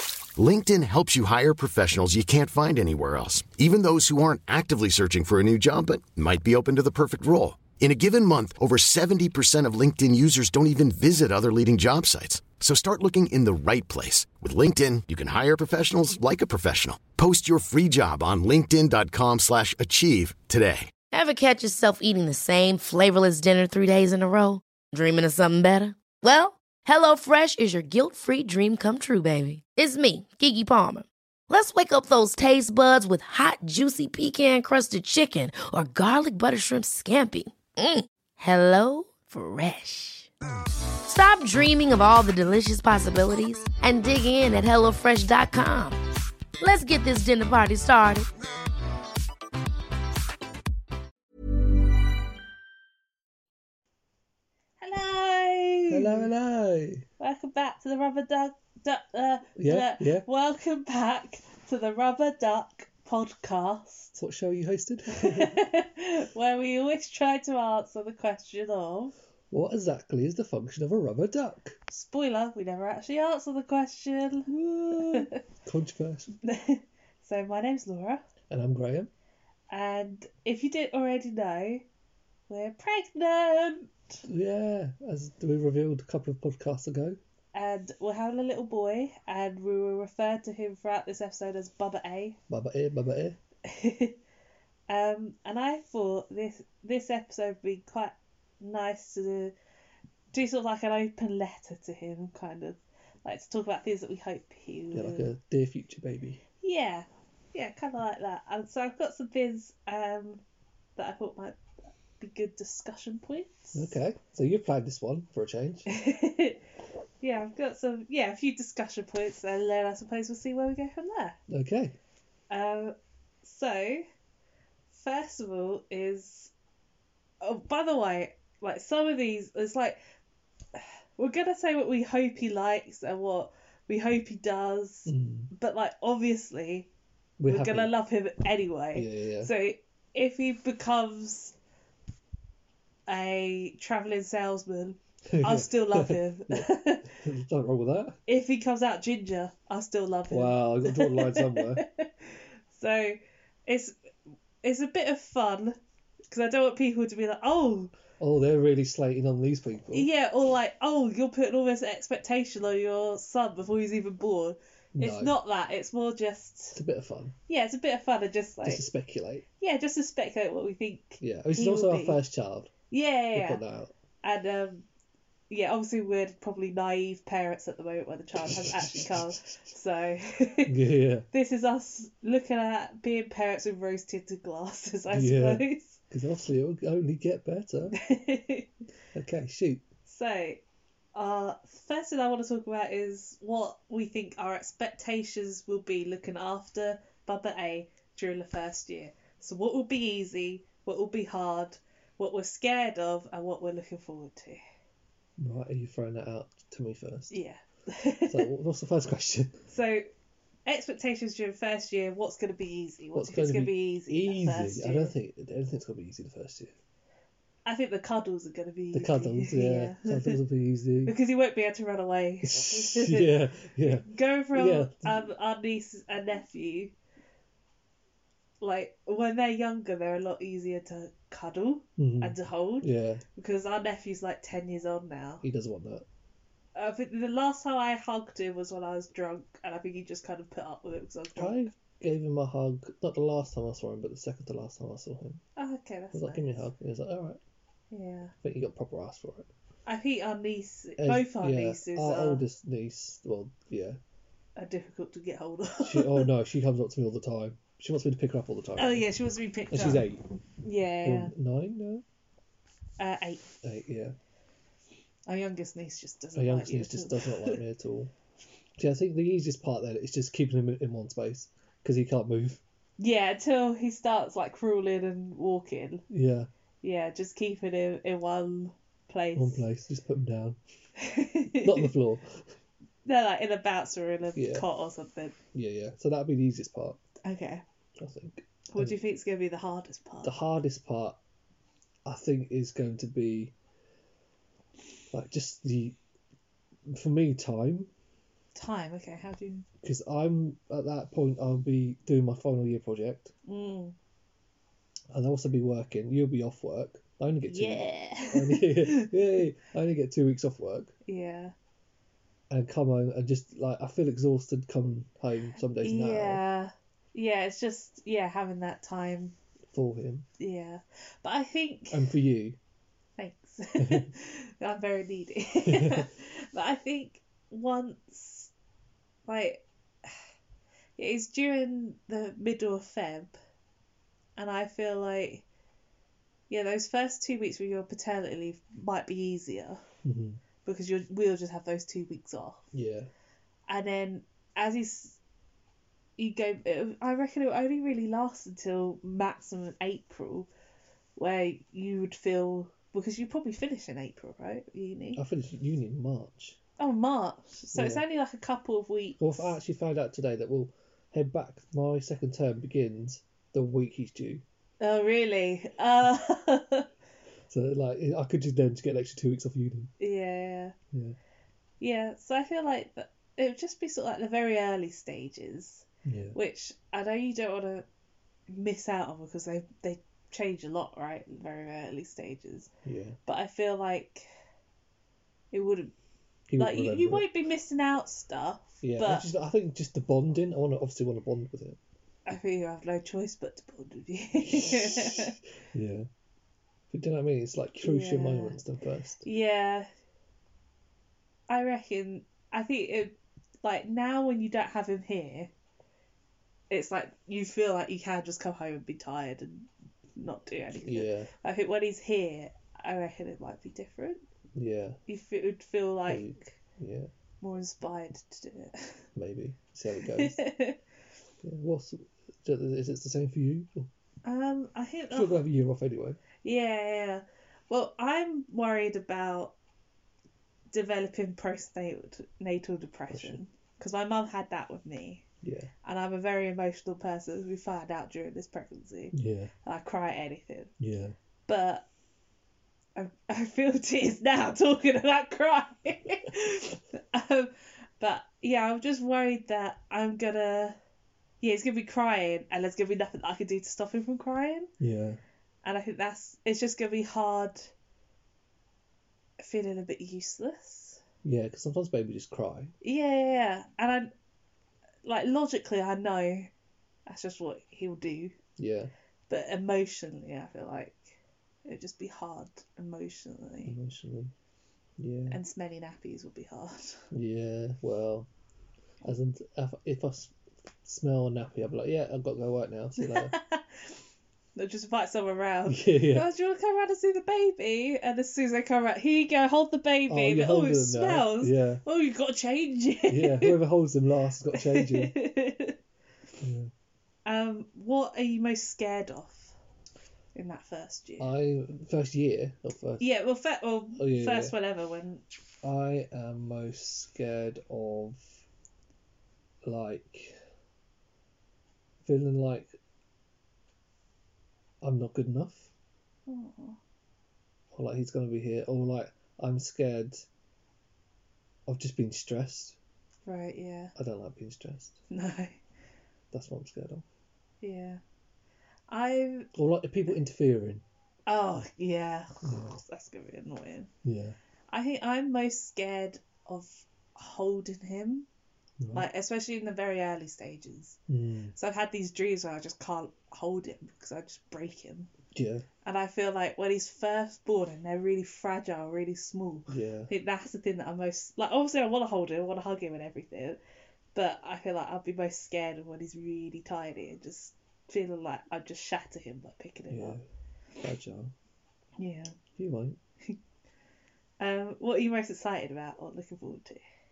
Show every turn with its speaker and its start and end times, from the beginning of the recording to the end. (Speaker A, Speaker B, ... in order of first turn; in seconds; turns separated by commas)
Speaker A: 0.4-20.9, Speaker B: 21.1-40.3, Speaker B: 41.0-46.0, Speaker B: 46.6-48.3, Speaker C: 54.8-56.3, Speaker D: 55.9-57.1, Speaker C: 57.2-64.2, Speaker D: 59.6-60.3, Speaker D: 64.2-65.6, Speaker C: 65.1-69.1, Speaker D: 69.5-71.8, Speaker C: 71.9-75.4, Speaker D: 74.5-76.3, Speaker C: 76.4-78.2, Speaker D: 78.5-79.1, Speaker C: 79.7-81.8, Speaker C: 82.5-84.2, Speaker D: 84.2-87.2, Speaker C: 87.5-92.4, Speaker D: 92.5-93.4, Speaker C: 93.7-94.2, Speaker C: 94.9-99.5, Speaker C: 100.3-105.3, Speaker D: 104.9-106.4, Speaker C: 106.6-110.4, Speaker C: 111.0-111.6, Speaker C: 112.2-114.0, Speaker D: 113.7-115.9, Speaker C: 115.9-116.6, Speaker C: 117.2-121.4, Speaker D: 121.5-122.0, Speaker C: 122.5-124.0, Speaker C: 124.9-126.5, Speaker C: 127.4-130.0, Speaker C: 130.7-136.9, Speaker D: 135.1-135.5, Speaker D: 137.4-137.9, Speaker C: 137.5-141.6, Speaker D: 138.9-139.5, Speaker C: 143.1-147.1, Speaker D: 145.3-148.2, Speaker C: 148.3-153.9, Speaker D: 150.3-151.8, Speaker C: 154.6-155.8, Speaker C: 156.3-157.9, Speaker D: 158.2-160.1, Speaker C: 159.9-166.8, Speaker D: 164.9-165.4, Speaker D: 166.7-167.3, Speaker C: 167.5-168.8, Speaker D: 168.6-169.4, Speaker C: 169.6-172.2, Speaker D: 171.2-172.7, Speaker C: 172.9-173.6, Speaker D: 173.3-173.9, Speaker C: 174.2-174.8, Speaker C: 175.5-180.8, Speaker D: 178.4-179.6, Speaker D: 180.7-181.3, Speaker C: 181.3-186.0, Speaker D: 185.1-188.0, Speaker C: 188.0-188.7, Speaker D: 189.1-189.8, Speaker C: 190.1-190.6, Speaker C: 191.2-204.6, Speaker D: 205.4-207.4, Speaker C: 207.3-208.5, Speaker D: 208.3-209.6, Speaker C: 209.7-210.1, Speaker C: 210.7-215.1, Speaker D: 213.1-216.8, Speaker C: 217.7-220.4, Speaker D: 218.9-221.2, Speaker C: 221.1-226.9, Speaker D: 222.4-225.3, Speaker C: 228.6-235.4, Speaker D: 232.0-233.2, Speaker D: 235.4-236.1, Speaker C: 236.8-241.7, Speaker D: 241.3-245.4, Speaker C: 245.6-246.6, Speaker D: 246.1-247.4, Speaker C: 247.9-248.3, Speaker D: 248.4-249.5, Speaker C: 249.9-252.4, Speaker D: 251.0-254.0, Speaker C: 254.6-256.3, Speaker D: 255.8-259.1, Speaker C: 258.8-260.1, Speaker D: 259.7-260.2, Speaker C: 260.6-261.3, Speaker D: 261.0-262.0, Speaker C: 263.0-263.5, Speaker D: 263.6-264.2, Speaker C: 265.3-267.6, Speaker D: 266.4-268.1, Speaker D: 268.8-272.6, Speaker C: 273.0-276.0, Speaker D: 276.1-276.5, Speaker C: 276.8-279.6, Speaker D: 279.3-280.6, Speaker C: 281.0-281.9, Speaker D: 281.5-282.5, Speaker C: 283.1-285.4, Speaker D: 284.4-284.7, Speaker D: 285.5-287.0, Speaker C: 287.2-287.6, Speaker D: 288.0-289.0, Speaker C: 288.7-290.3, Speaker D: 290.2-291.2, Speaker D: 292.1-293.5, Speaker D: 295.1-296.0, Speaker D: 296.9-297.9, Speaker C: 298.5-299.7, Speaker D: 299.8-303.3, Speaker C: 303.5-303.9, Speaker D: 305.1-310.9, Speaker C: 307.4-309.1, Speaker C: 311.1-311.5, Speaker D: 312.5-316.4, Speaker C: 315.8-319.4, Speaker D: 319.7-320.3, Speaker C: 320.4-322.1, Speaker D: 321.9-322.6, Speaker C: 323.2-328.5, Speaker D: 323.8-324.1, Speaker D: 325.6-326.1, Speaker C: 329.3-330.2, Speaker C: 331.0-333.4, Speaker C: 334.4-335.4, Speaker C: 336.5-339.9, Speaker D: 340.0-340.4, Speaker C: 340.6-342.7, Speaker D: 342.7-343.1, Speaker C: 343.7-345.2, Speaker C: 346.2-350.5, Speaker C: 351.2-355.2, Speaker D: 355.1-356.6, Speaker C: 356.8-359.6, Speaker D: 357.7-358.0, Speaker D: 359.2-364.4, Speaker C: 364.8-366.9, Speaker D: 367.5-369.9, Speaker C: 370.0-370.8, Speaker D: 370.9-371.2, Speaker C: 371.8-377.9, Speaker D: 376.1-376.4, Speaker C: 378.5-382.7, Speaker D: 382.9-383.2, Speaker C: 383.3-384.3, Speaker C: 385.5-385.9, Speaker D: 386.5-387.3, Speaker C: 386.6-389.3, Speaker D: 388.8-391.8, Speaker C: 392.3-395.4, Speaker D: 394.4-396.1, Speaker D: 396.9-399.3, Speaker C: 397.8-398.6, Speaker C: 399.2-399.9, Speaker C: 401.5-405.5, Speaker C: 406.7-414.2, Speaker D: 410.8-411.3, Speaker D: 414.6-415.0, Speaker C: 415.1-416.3, Speaker D: 416.1-417.1, Speaker C: 417.4-419.0, Speaker D: 419.2-420.4, Speaker C: 420.0-420.8, Speaker D: 421.4-423.9, Speaker C: 424.2-425.4, Speaker D: 425.1-426.2, Speaker C: 426.4-429.5, Speaker C: 430.7-435.2, Speaker D: 433.1-433.4, Speaker D: 435.4-435.7, Speaker C: 435.8-440.7, Speaker D: 439.1-439.5, Speaker D: 440.8-441.2, Speaker C: 441.5-441.9, Speaker C: 443.0-450.8, Speaker C: 451.4-454.7, Speaker D: 454.8-455.2, Speaker C: 455.6-457.7, Speaker C: 459.4-461.0, Speaker D: 461.2-462.7, Speaker C: 462.8-464.1, Speaker C: 465.0-466.5, Speaker C: 467.1-468.4, Speaker D: 468.6-468.9, Speaker C: 469.3-473.8, Speaker D: 473.7-474.3, Speaker D: 475.0-475.4, Speaker C: 475.3-477.1, Speaker D: 477.1-478.3, Speaker D: 479.0-480.3, Speaker D: 480.9-483.4, Speaker C: 483.0-484.0, Speaker C: 484.6-493.6, Speaker D: 485.7-486.3, Speaker D: 490.1-491.8, Speaker D: 493.1-495.1, Speaker C: 494.5-495.8, Speaker D: 496.4-496.7, Speaker C: 497.3-499.5, Speaker C: 500.4-501.3, Speaker D: 501.2-503.1, Speaker C: 503.0-505.2, Speaker D: 504.0-504.5, Speaker D: 505.6-508.4, Speaker D: 509.6-510.4, Speaker D: 512.0-512.8, Speaker D: 514.8-515.7, Speaker C: 516.3-516.8, Speaker D: 517.7-520.3, Speaker D: 521.7-522.8, Speaker C: 523.3-523.9, Speaker D: 524.0-525.0, Speaker C: 525.1-525.6, Speaker D: 526.3-527.0, Speaker C: 527.6-528.0, Speaker C: 528.9-529.5, Speaker D: 529.5-530.8, Speaker C: 531.3-533.9, Speaker D: 532.4-532.8, Speaker D: 534.0-534.4, Speaker C: 534.7-538.3, Speaker D: 538.8-539.1, Speaker C: 538.9-541.0, Speaker D: 541.1-541.5, Speaker C: 541.5-545.1, Speaker D: 545.3-545.7, Speaker C: 545.8-553.6, Speaker D: 549.7-550.1, Speaker C: 554.1-560.2, Speaker D: 559.9-560.2, Speaker D: 560.8-561.3, Speaker C: 562.0-562.4, Speaker D: 562.6-563.0, Speaker C: 564.4-566.8